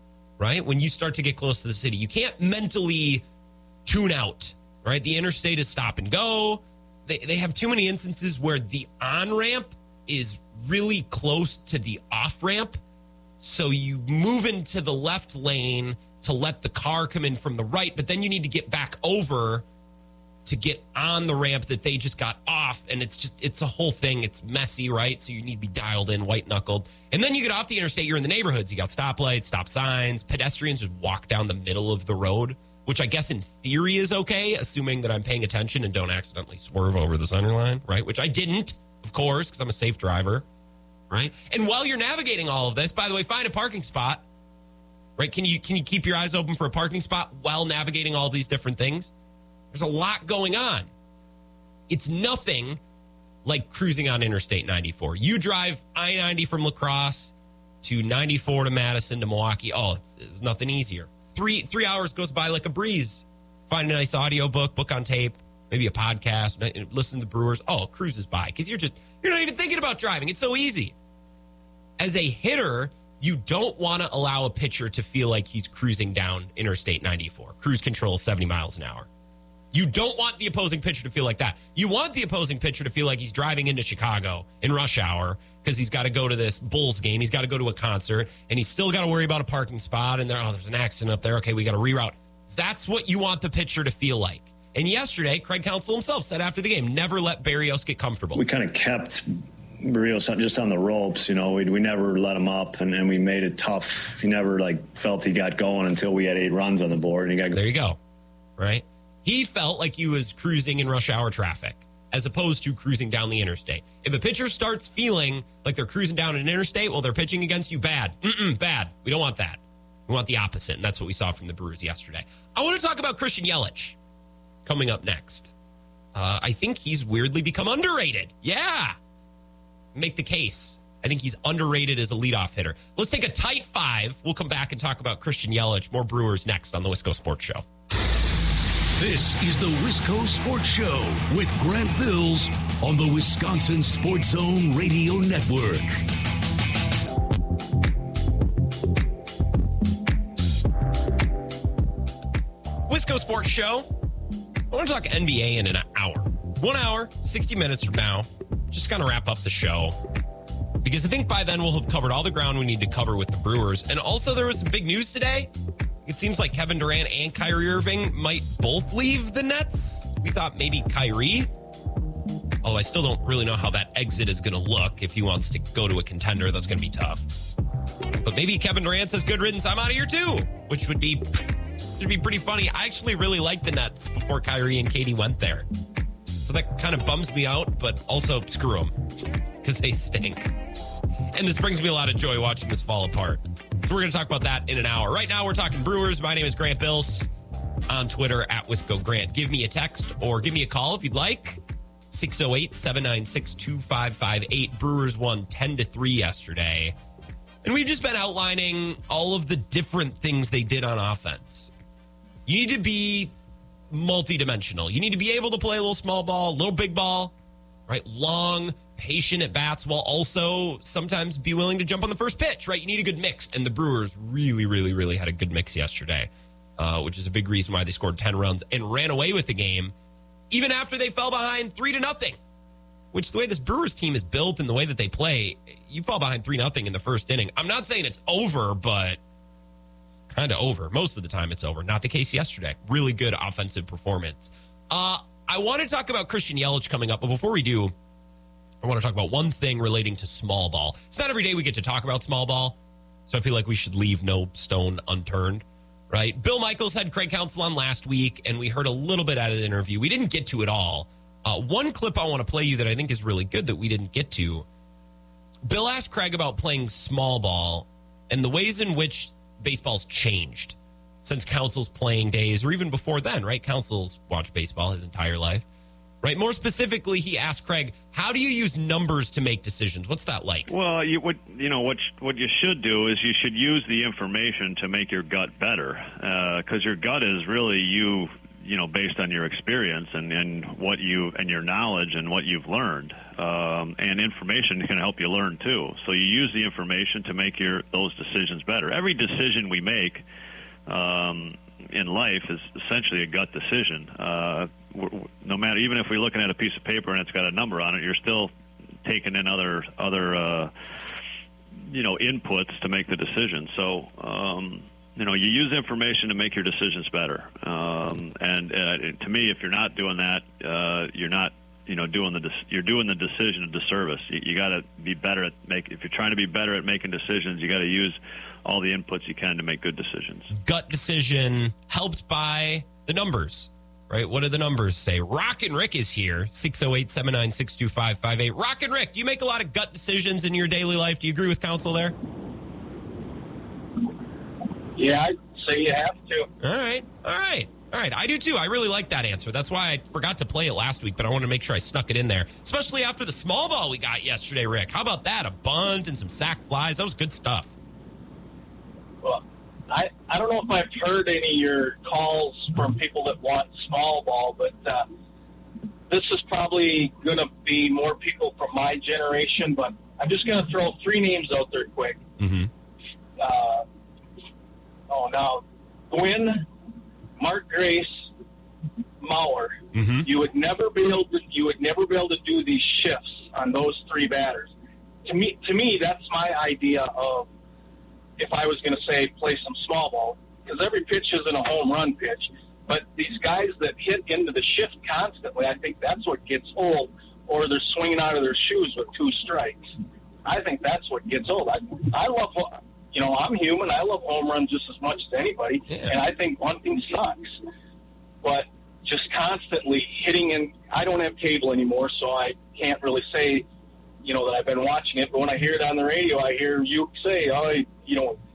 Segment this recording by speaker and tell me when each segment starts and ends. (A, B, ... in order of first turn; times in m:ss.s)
0:00.4-0:03.2 A
0:03.9-0:12.8 A
0:13.4-0:19.6 A
0:20.5-0:40.4 A
0:41.1-0:44.2 A
0:45.2-0:49.1 A
0:49.7-0:50.9 A
0:51.9-0:52.8 A
0:53.4-1:10.9 A
1:12.0-1:19.1 A
1:19.7-1:38.4 A
1:38.4-1:39.2 B
1:39.8-1:47.6 B
1:47.5-1:48.0 A
1:48.6-2:04.0 A
2:04.6-2:05.5 A
2:06.2-2:09.0 A
2:10.0-2:17.6 A
2:19.0-2:26.0 C
2:32.9-2:33.9 A
2:34.7-2:40.0 A
2:40.8-2:45.5 A
2:46.1-2:51.5 A
2:52.6-2:57.2 A
2:58.2-3:05.7 A
3:06.4-3:08.9 A
3:09.6-3:10.5 A
3:11.3-3:17.3 A
3:17.9-3:21.6 A
3:22.1-3:27.0 A
3:27.6-3:31.7 A
3:32.5-3:33.3 A
3:33.9-3:37.3 A
3:37.9-3:49.9 A
3:50.5-3:52.4 A
3:53.1-3:59.2 A
4:00.3-4:07.9 A
4:08.8-4:12.8 A
4:13.3-4:24.7 A
4:25.6-4:35.6 A
4:36.2-4:40.7 A
4:40.7-5:00.2 D
5:00.9-5:08.5 D
5:09.0-5:10.7 D
5:11.9-5:30.5 D
5:30.5-5:42.2 A
5:45.0-5:46.5 E
5:46.6-5:57.7 A
5:59.2-6:05.1 E
6:06.1-6:12.2 E
6:12.4-6:12.7 A
6:13.4-6:13.8 E
6:15.1-6:16.7 E
6:17.4-6:18.3 E
6:19.2-6:24.7 E
6:19.9-6:20.3 A
6:25.2-6:27.5 E
6:28.4-6:47.5 E
6:45.9-6:46.2 A
6:48.4-6:53.7 E
6:54.2-6:58.4 E